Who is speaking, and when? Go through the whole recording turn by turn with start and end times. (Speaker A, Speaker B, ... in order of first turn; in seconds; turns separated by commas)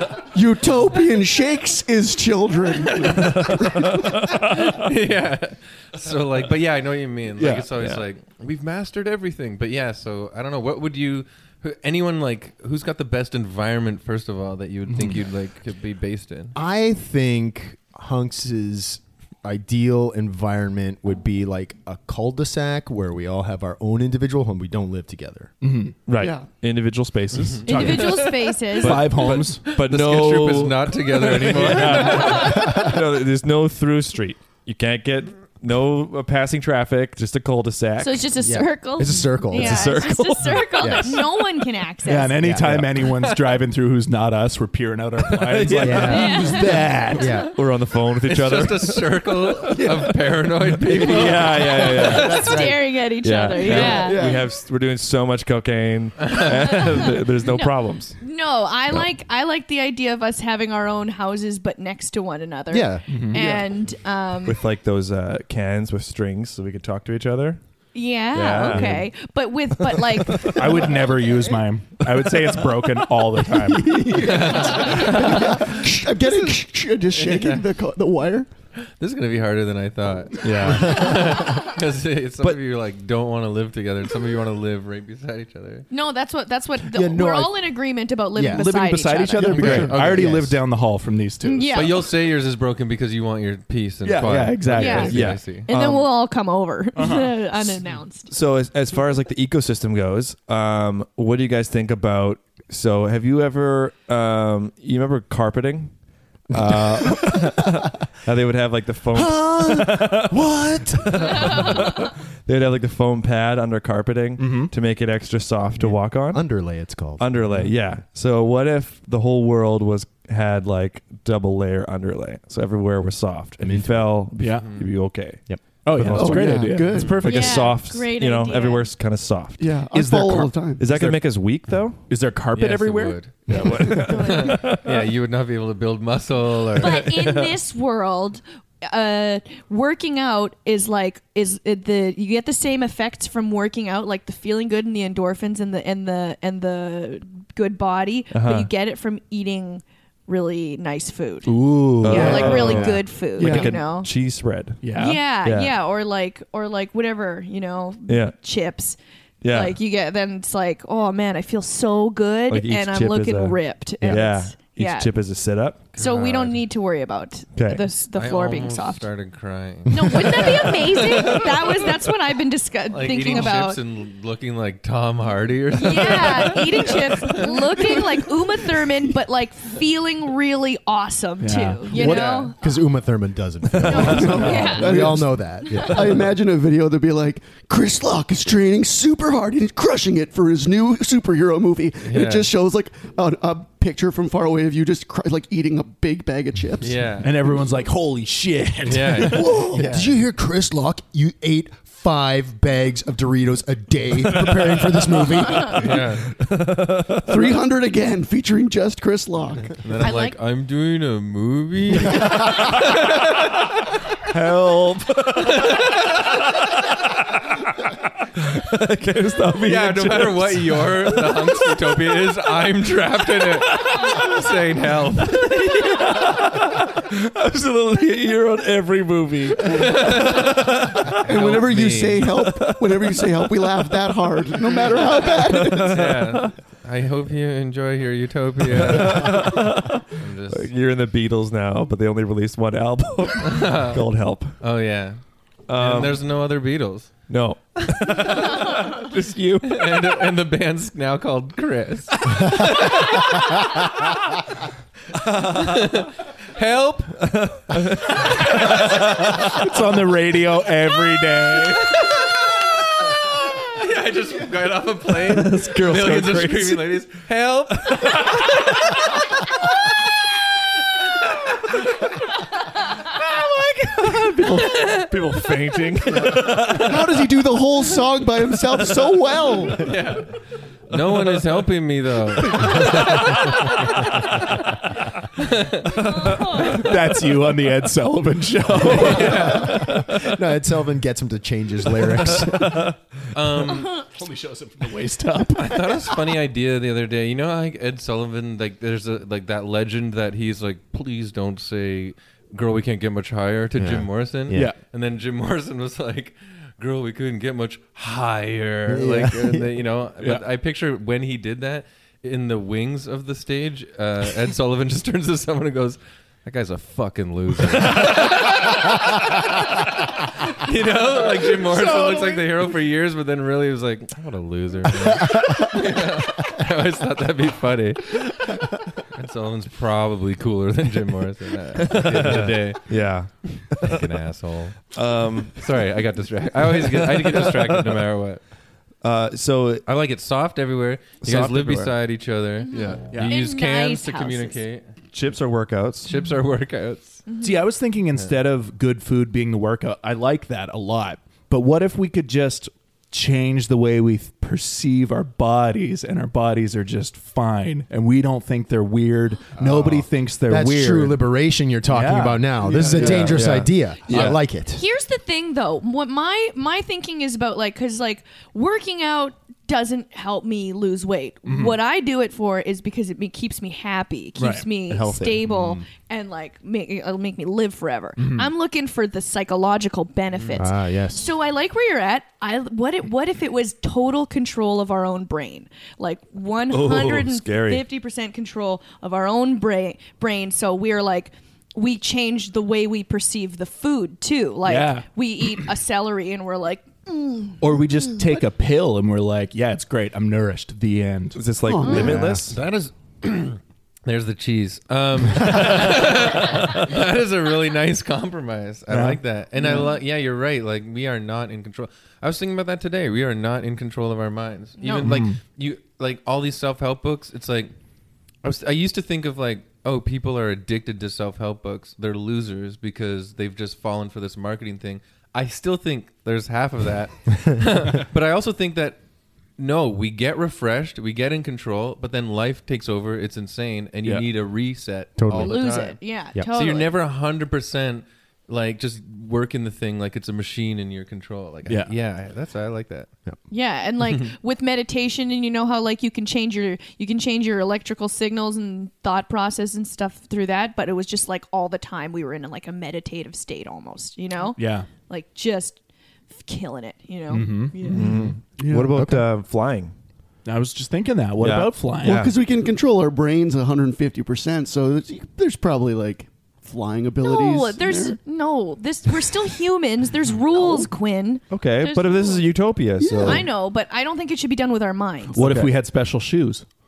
Speaker A: 0.3-4.0, Speaker B: 3.0-3.3, Speaker C: 3.2-4.7, Speaker B: 4.5-16.6, Speaker D: 7.4-7.7, Speaker C: 7.8-8.0, Speaker E: 16.6-25.5, Speaker D: 25.6-26.0, Speaker C: 26.1-38.3, Speaker A: 26.2-26.5, Speaker B: 27.4-28.1, Speaker F: 27.6-29.1, Speaker D: 27.6-28.3, Speaker D: 28.8-29.7, Speaker B: 29.0-32.8, Speaker D: 31.3-31.9, Speaker F: 32.1-32.6, Speaker F: 38.0-42.4, Speaker E: 38.4-40.0, Speaker C: 39.5-41.1, Speaker E: 40.8-41.2, Speaker D: 42.0-47.4, Speaker E: 42.4-42.9, Speaker C: 42.6-42.9, Speaker B: 43.1-43.6, Speaker C: 45.3-46.8, Speaker E: 45.8-47.5, Speaker F: 46.0-47.3, Speaker C: 47.4-49.9, Speaker B: 48.2-52.3, Speaker C: 51.0-58.2, Speaker F: 51.7-54.3, Speaker A: 52.3-52.6, Speaker E: 52.4-52.8, Speaker A: 53.6-54.5, Speaker B: 56.2-56.8, Speaker F: 56.7-64.6, Speaker E: 62.7-63.0, Speaker D: 63.1-63.5, Speaker A: 63.4-63.6, Speaker C: 64.4-67.6, Speaker F: 67.9-70.9, Speaker C: 68.3-69.0, Speaker C: 69.8-70.8, Speaker D: 70.5-74.4, Speaker A: 73.9-78.5, Speaker B: 74.2-75.8, Speaker B: 77.1-77.6, Speaker B: 78.8-85.9, Speaker C: 80.4-81.4, Speaker F: 85.9-89.9, Speaker E: 86.9-87.7, Speaker E: 88.3-88.6, Speaker D: 88.5-91.8, Speaker E: 89.4-90.6, Speaker C: 89.6-89.9, Speaker B: 89.7-90.4, Speaker F: 91.4-92.1, Speaker B: 91.7-95.7, Speaker D: 94.0-95.4, Speaker F: 94.7-98.3, Speaker C: 95.0-96.1, Speaker D: 97.0-97.4, Speaker C: 98.3-105.9, Speaker C: 106.5-116.5, Speaker E: 106.5-107.7, Speaker E: 109.1-111.9, Speaker F: 111.5-111.9, Speaker D: 114.4-114.7, Speaker E: 115.8-117.6, Speaker C: 117.2-132.1, Speaker E: 123.6-124.3, Speaker D: 124.3-124.7, Speaker B: 124.6-124.9, Speaker E: 125.5-126.6, Speaker D: 125.8-127.7, Speaker A: 126.1-127.5, Speaker F: 127.2-128.9, Speaker A: 129.6-130.9, Speaker D: 129.9-131.3, Speaker D: 132.1-133.8, Speaker B: 132.5-133.5, Speaker C: 133.5-135.0, Speaker F: 134.1-134.6, Speaker B: 134.1-137.3, Speaker F: 136.7-154.1, Speaker C: 137.1-137.5, Speaker C: 148.3-148.7, Speaker D: 151.4-153.6, Speaker C: 152.0-154.9, Speaker A: 152.2-152.5, Speaker A: 153.4-153.7, Speaker D: 154.8-155.2, Speaker F: 154.9-165.1, Speaker C: 155.4-155.7, Speaker C: 158.1-158.4, Speaker C: 159.4-159.8, Speaker C: 162.5-165.9, Speaker B: 165.9-166.6, Speaker F: 165.9-169.1, Speaker C: 167.6-167.8, Speaker B: 168.1-171.9, Speaker F: 169.9-173.8, Speaker B: 172.9-177.5, Speaker F: 175.7-182.6, Speaker D: 181.4-182.1, Speaker E: 181.9-186.3, Speaker B: 182.0-182.5, Speaker F: 183.8-186.0, Speaker C: 183.9-184.4, Speaker A: 184.0-197.0, Speaker B: 192.0-192.5, Speaker B: 196.8-197.4, Speaker D: 197.2-199.8, Speaker B: 198.8-200.1, Speaker A: 199.4-200.0, Speaker E: 199.7-205.9, Speaker B: 205.7-206.3, Speaker C: 205.8-207.6, Speaker A: 207.3-209.8, Speaker B: 209.8-213.5, Speaker F: 210.0-210.4, Speaker C: 212.2-212.7, Speaker C: 214.3-222.2, Speaker B: 215.5-216.1, Speaker B: 219.6-226.0, Speaker C: 223.4-224.4, Speaker C: 225.2-231.2, Speaker B: 229.6-230.6, Speaker B: 231.2-232.3, Speaker A: 231.2-236.0, Speaker C: 232.3-234.1, Speaker C: 235.2-236.5, Speaker B: 235.8-239.6, Speaker C: 238.7-244.6, Speaker B: 240.2-240.7, Speaker B: 243.4-244.0, Speaker B: 244.6-245.2, Speaker C: 245.7-246.2, Speaker B: 245.7-247.1, Speaker C: 247.3-249.8, Speaker B: 249.6-253.6, Speaker C: 255.1-256.1, Speaker B: 255.6-257.2, Speaker C: 257.2-259.6, Speaker D: 259.5-262.0, Speaker B: 262.0-262.4, Speaker B: 263.6-269.1, Speaker D: 265.3-266.8, Speaker C: 273.0-277.4, Speaker B: 274.6-275.1, Speaker A: 276.1-279.9, Speaker B: 279.7-280.4, Speaker B: 280.9-283.9, Speaker C: 282.6-283.5, Speaker B: 285.4-285.9, Speaker C: 286.0-286.8, Speaker F: 286.1-286.9, Speaker D: 286.6-289.8, Speaker B: 288.8-289.9, Speaker C: 288.9-289.2, Speaker E: 289.3-292.9, Speaker C: 292.3-292.9, Speaker B: 293.3-294.1, Speaker D: 294.0-296.2, Speaker B: 295.7-334.9, Speaker E: 303.8-304.7, Speaker D: 304.5-304.8, Speaker E: 308.9-309.6, Speaker D: 310.2-310.4, Speaker C: 331.8-334.1, Speaker C: 334.9-335.8, Speaker B: 335.6-338.4, Speaker C: 336.6-338.1, Speaker C: 339.0-339.9, Speaker B: 339.9-344.9, Speaker C: 341.2-341.9, Speaker F: 342.6-344.6, Speaker D: 343.0-343.4, Speaker C: 345.1-346.1, Speaker B: 346.1-347.3, Speaker F: 347.3-347.6, Speaker D: 347.4-361.2, Speaker E: 359.6-364.8, Speaker D: 361.9-363.1, Speaker A: 362.6-363.4, Speaker C: 363.0-364.4, Speaker D: 364.1-364.4, Speaker F: 364.7-397.6, Speaker D: 371.4-371.8, Speaker D: 374.4-375.8, Speaker D: 378.2-378.5, Speaker B: 380.4-380.6, Speaker E: 380.6-381.3, Speaker C: 386.7-387.8, Speaker D: 394.6-395.1, Speaker D: 397.6-401.5, Speaker C: 401.4-402.6, Speaker A: 401.6-402.3, Speaker E: 401.9-402.5, Speaker B: 402.5-417.7, Speaker D: 408.9-409.2, Speaker F: 414.8-415.1, Speaker D: 415.0-415.4, Speaker B: 418.4-429.0, Speaker B: 429.6-443.1, Speaker E: 435.2-435.6, Speaker F: 435.3-436.9, Speaker D: 441.6-441.9, Speaker F: 443.5-455.8, Speaker D: 454.6-454.9, Speaker F: 456.3-458.1, Speaker D: 457.3-458.0, Speaker C: 457.9-459.9, Speaker E: 457.9-458.4, Speaker A: 458.6-459.0, Speaker E: 458.9-459.3, Speaker D: 460.4-462.3, Speaker C: 461.4-462.4, Speaker A: 462.0-468.2, Speaker F: 467.2-472.5, Speaker A: 470.6-470.9, Speaker C: 471.5-473.5, Speaker A: 473.0-473.4, Speaker F: 473.2-475.4, Speaker D: 475.3-476.6, Speaker C: 475.4-475.7